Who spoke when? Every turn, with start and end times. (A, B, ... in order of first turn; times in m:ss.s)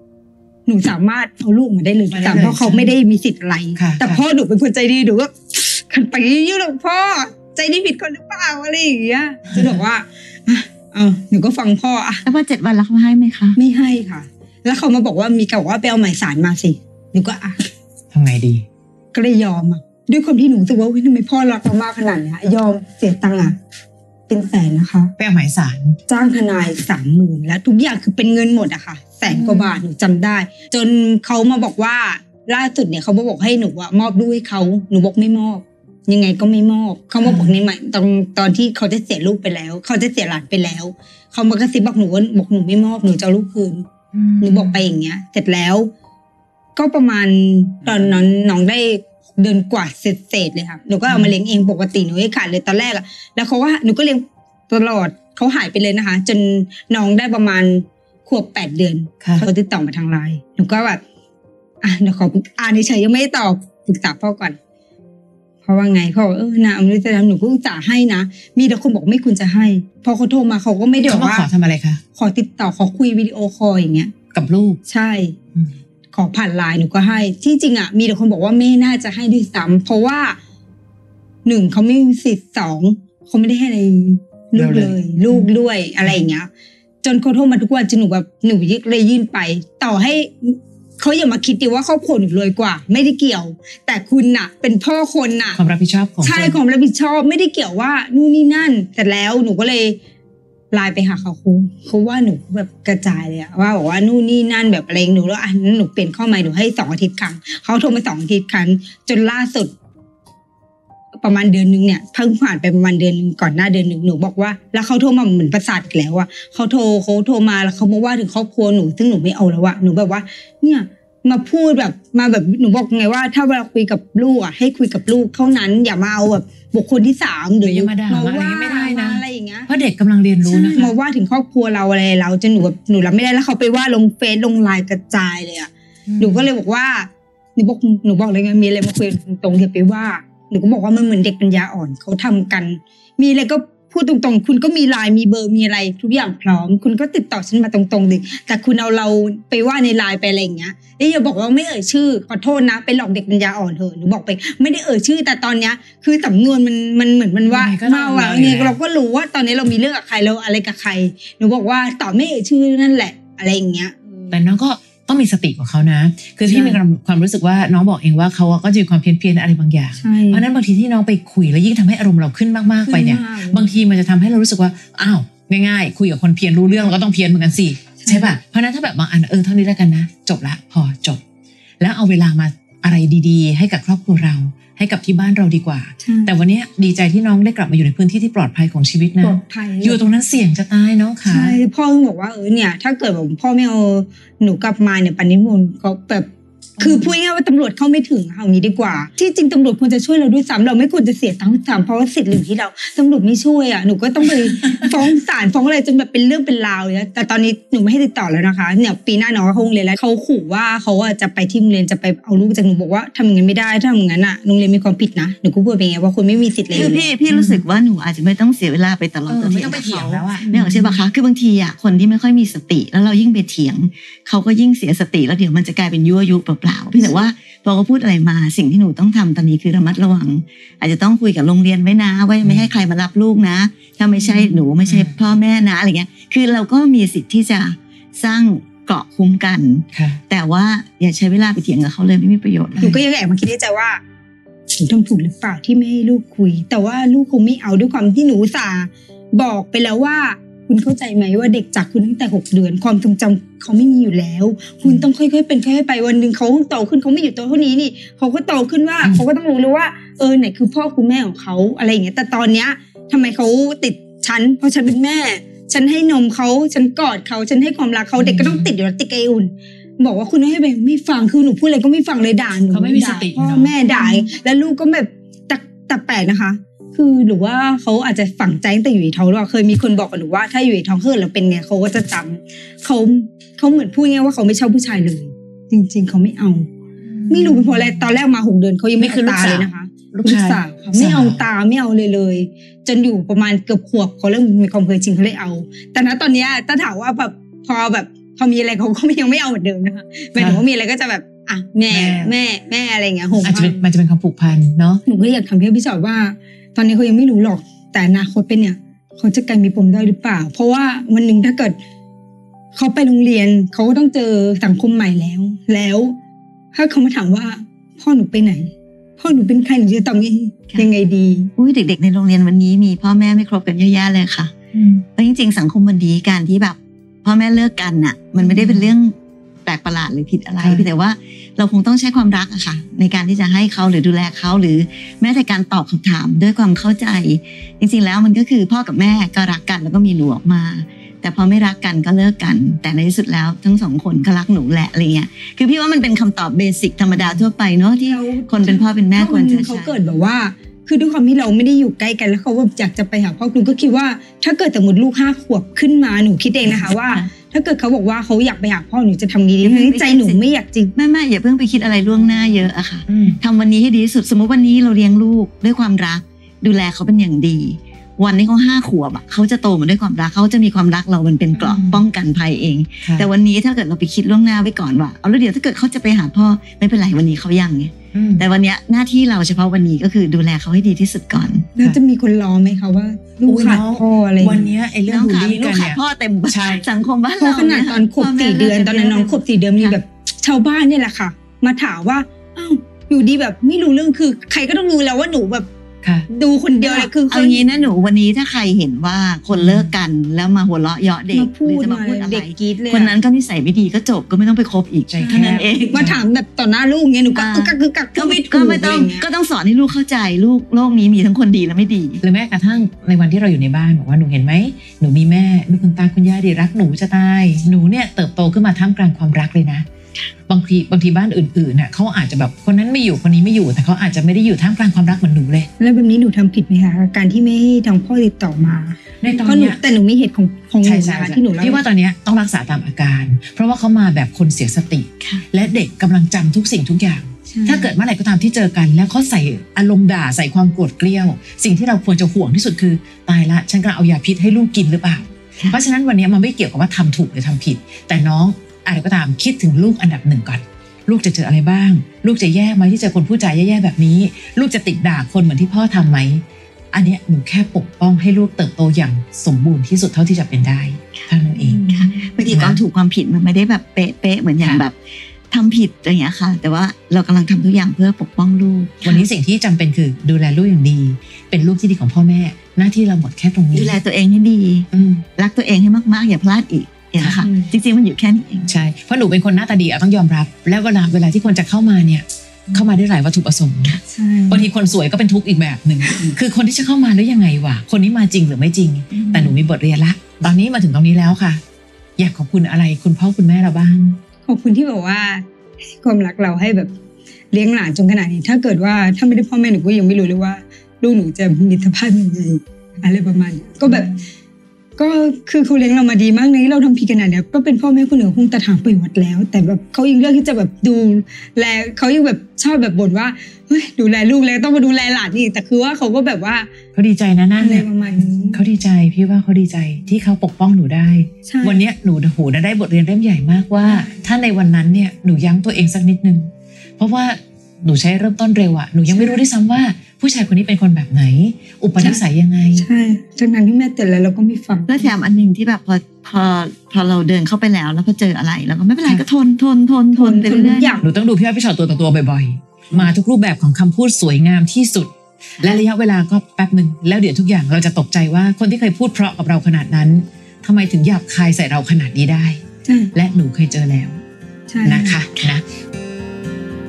0:00.7-0:12.2 A
0:02.1-0:02.9 B
0:03.8-0:04.2 B
0:12.2-0:13.6 C
0:13.6-0:17.6 A
0:18.1-0:18.6 B
0:19.1-0:23.6 A
0:24.3-0:25.1 A
0:25.2-0:26.0 B
0:26.1-0:43.8 A
0:29.3-0:29.8 B
0:37.2-0:37.6 B
0:44.1-0:44.8 B
0:44.4-0:45.9 A
0:46.8-1:01.0 A
0:51.1-0:51.3 B
1:01.8-1:04.6 A
1:05.6-1:11.5 A
1:11.0-1:12.0 B
1:12.2-1:14.1 A
1:14.3-1:14.8 B
1:14.9-1:15.4 A
1:16.1-1:20.4 A
1:21.4-1:26.5 A
1:24.5-1:25.5 B
1:27.0-1:35.6 A
1:35.5-1:36.6 B
1:36.2-1:40.0 A
1:40.7-1:49.7 A
1:51.2-2:09.7 A
2:07.6-2:10.9 B
2:10.4-2:44.3 A
2:16.1-2:16.4 B
2:37.5-2:38.8 B
2:44.3-3:01.2 B
2:46.4-2:46.8 A
2:50.0-2:50.4 A
2:52.8-2:53.7 A
2:58.0-2:58.3 A
3:01.8-3:11.6 B
3:06.0-3:06.3 A
3:09.2-3:10.0 A
3:11.3-3:16.3 A
3:16.8-3:17.1 B
3:16.8-3:37.1 A
3:24.6-3:24.9 B
3:36.7-4:02.9 C
3:37.2-3:37.6 B
3:39.3-3:40.5 B
3:40.4-3:41.0 A
3:47.0-3:47.2 A
3:52.4-3:52.7 B
3:54.2-3:55.3 B
3:59.9-4:00.2 B
4:02.8-4:03.0 B
4:02.8-4:04.0 A
4:04.7-4:46.7 A
4:28.2-4:28.7 B
4:32.7-4:34.3 B
4:47.0-4:48.0 B
4:47.3-5:03.9 A
4:49.0-4:51.4 B
5:00.4-5:00.6 B
5:01.9-5:02.3 B
5:03.4-5:05.0 B
5:05.0-5:11.8 A
5:12.8-5:16.2 A
5:16.7-5:21.5 A
5:21.6-5:24.5 C
5:24.7-5:25.0 B
5:25.2-5:50.0 C
5:28.4-5:28.9 B
5:30.6-5:30.8 B
5:47.2-5:47.4 B
5:47.9-6:00.9 A
5:59.6-6:00.4 C
6:00.9-6:21.7 C
6:03.1-6:03.4 B
6:11.5-6:12.0 B
6:13.0-6:13.3 B
6:18.1-6:18.5 B
6:21.8-6:24.7 A
6:23.4-6:26.9 B
6:25.1-6:30.0 C
6:27.4-6:35.7 A
6:36.3-6:37.9 A
6:36.8-6:46.0 C
6:39.5-6:39.9 B
6:41.3-6:43.2 A
6:45.1-6:46.2 B
6:45.2-6:49.2 A
6:47.3-6:52.2 C
6:52.2-6:59.8 B
7:00.5-7:05.7 B
7:05.8-7:11.8 A
7:09.2-7:09.8 B
7:10.8-7:41.9 B
7:17.5-7:17.9 A
7:41.8-7:42.3 A
7:41.8-7:45.0 C
7:42.4-7:42.8 B
7:44.6-7:44.8 B
7:45.5-7:49.2 C
7:49.0-7:54.0 B
7:53.7-7:58.7 C
7:54.9-7:55.3 B
7:57.2-7:57.4 B
7:57.4-7:57.7 A
7:58.6-8:11.6 B
8:04.0-8:04.6 A
8:06.1-8:06.4 A
8:09.3-8:09.5 C
8:12.2-8:14.2 B
8:14.4-8:15.4 A
8:16.0-8:16.9 A
8:17.5-8:24.2 A
8:25.0-8:36.7 A
8:36.9-8:52.9 B
8:37.6-8:38.6 A
8:41.4-8:41.8 A
8:43.9-8:44.2 A
8:49.1-8:49.4 A
8:52.0-8:52.2 A
8:52.7-8:55.1 A
8:54.9-9:01.0 C
9:00.1-9:01.1 A
9:01.0-9:12.6 B
9:12.9-9:13.1 A
9:13.1-9:14.2 B
9:14.7-9:15.2 A
9:14.8-9:15.6 B